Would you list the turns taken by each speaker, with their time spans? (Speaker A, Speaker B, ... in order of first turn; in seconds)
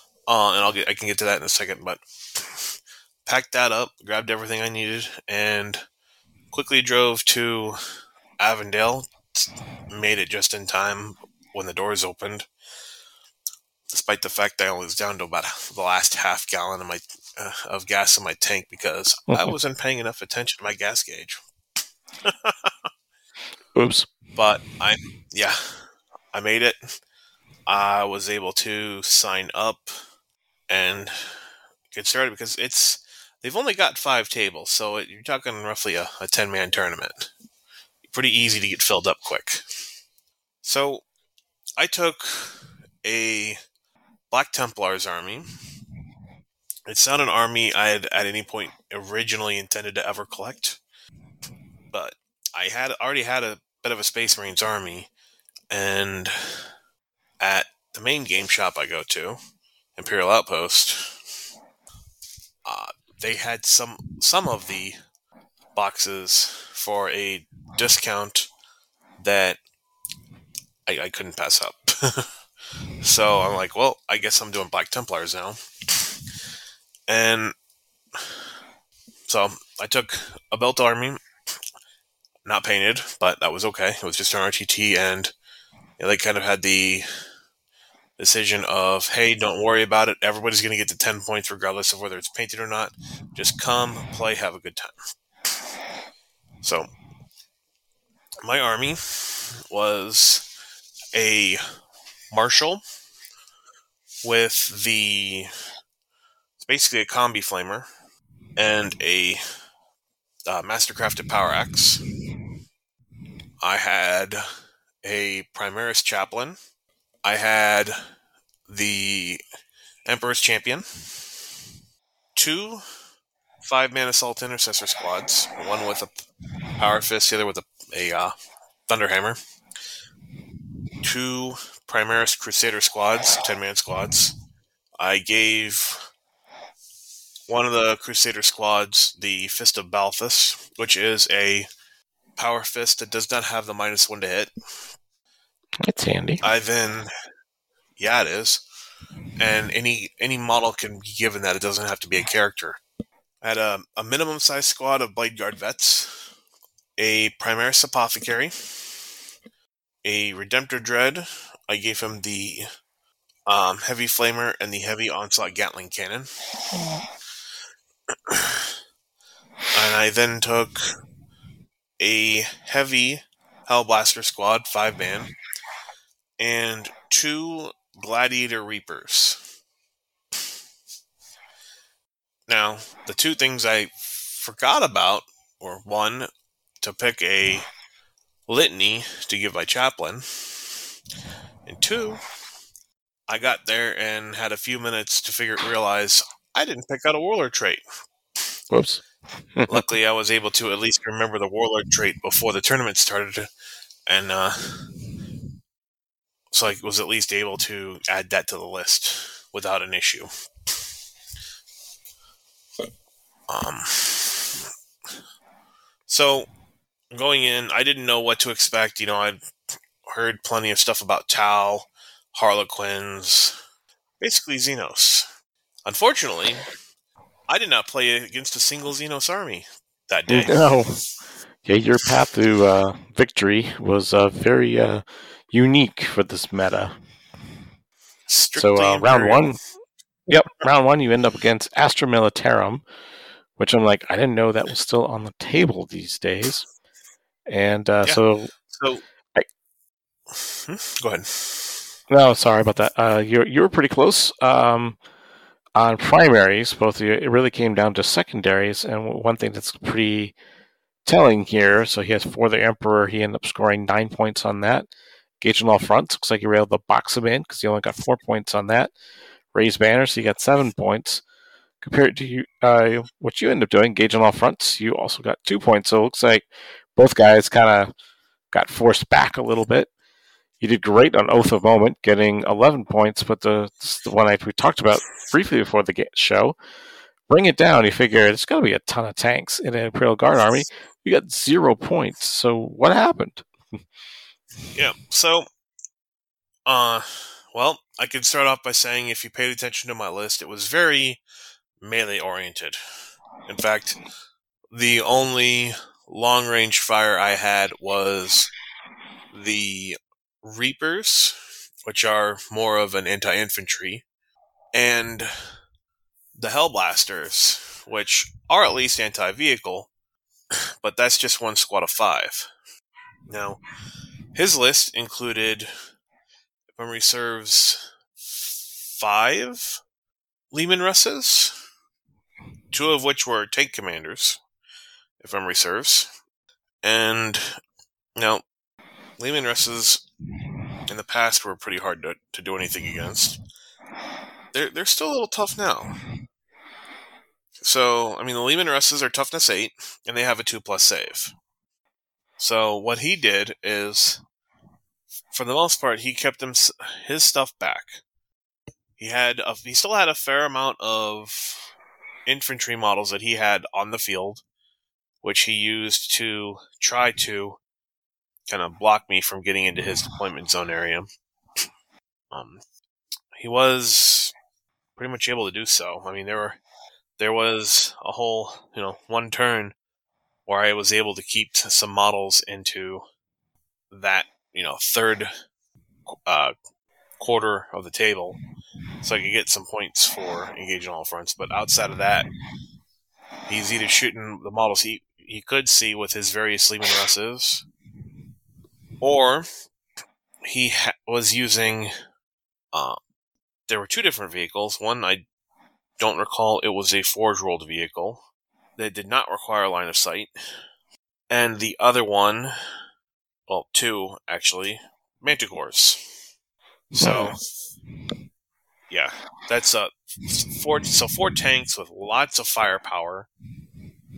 Speaker A: 0.3-5.8, 6.5-7.8, 8.4-12.5, 13.9-21.4, 22.2-22.9, 24.3-26.9, 27.7-29.9, 30.7-31.4, 31.9-37.3, 38.1-39.6, 40.6-41.0, 41.8-43.6, 44.3-45.5, 46.9-50.8, 51.9-55.1, 55.7-56.7, 57.4-59.4, 60.0-61.2, 62.6-65.0, 65.7-68.5, 69.2-69.6, 70.8-72.2, 73.0-75.6, 77.1-77.5, 79.3-81.2, 82.4-85.3, 86.0-87.0, 88.2-94.9, 96.6-96.9, 98.4-100.5, 101.1-101.6, 102.3-102.8, 104.2-105.5, 106.6-107.9, 108.5-109.4, 110.5-112.0, 113.6-114.4, 115.0-116.6, 117.2-117.9, 118.7-119.4, 120.0-120.8, 122.3-122.8, 123.6-126.2, 126.8-128.3, 128.9-129.4, 131.0-134.3, 135.0-136.1, 137.5-141.7, 142.4-144.5, 146.4-147.1, 148.0-148.6, 149.4-152.8, 153.4-156.2, 157.0-158.5, 160.0-162.7, 163.5-166.3, 168.2-168.7, 169.7-170.9, 172.0-175.3, 176.4-179.4, 182.5-186.3, 186.8-187.7, 188.5-190.8, 191.7-192.2, 193.3-197.8, 199.7-203.5, 204.1-204.9, 206.5-210.3, 213.5-214.7, 216.1-216.5, 217.1-219.4, 220.1-223.6, 224.2-225.3, 225.8-226.7, 227.5-230.7, 238.3-239.4, 248.0-249.0, 250.5-251.8, 294.7-295.4, 296.6-301.2, 301.8-302.8, 303.4-304.0, 304.7-308.5, 309.3-314.0, 314.7-315.3, 316.3-319.9, 320.8-322.5, 323.3-323.6, 324.3-325.7, 326.7-329.8, 330.5-331.6, 332.7-334.4, 335.2-336.1, 336.8-337.6, 338.1-338.4, 339.2-340.1, 340.9-343.4, 344.5-346.0, 347.6-351.3, 352.4-354.2, 355.3-358.0, 359.0-361.7, 362.3-364.4, 365.2-367.6, 368.5-371.1, 372.3-372.6, 373.3-374.3, 375.0-376.6, 377.2-379.7, 380.4-383.0, 383.9-385.3, 386.2-386.5, 387.2-388.4, 389.0-392.3, 393.5-397.6, 399.0-399.5, 400.4-401.9, 402.7-403.0, 403.7-405.2, 406.0-408.2, 408.8-410.3, 411.3-412.5, 413.5-416.1, 416.9-417.4, 418.9-423.3
Speaker B: 19.3-19.5, 23.7-24.1, 145.8-146.4, 198.7-199.0, 199.5-199.8, 230.3-231.0, 231.6-237.0, 238.6-239.6, 240.3-242.8, 243.6-246.7, 247.5-248.5, 252.1-255.0, 255.8-260.3, 261.1-264.9, 265.4-268.9, 269.5-271.2, 271.8-277.9, 278.5-279.9, 280.6-286.6, 287.3-293.4, 417.0-417.3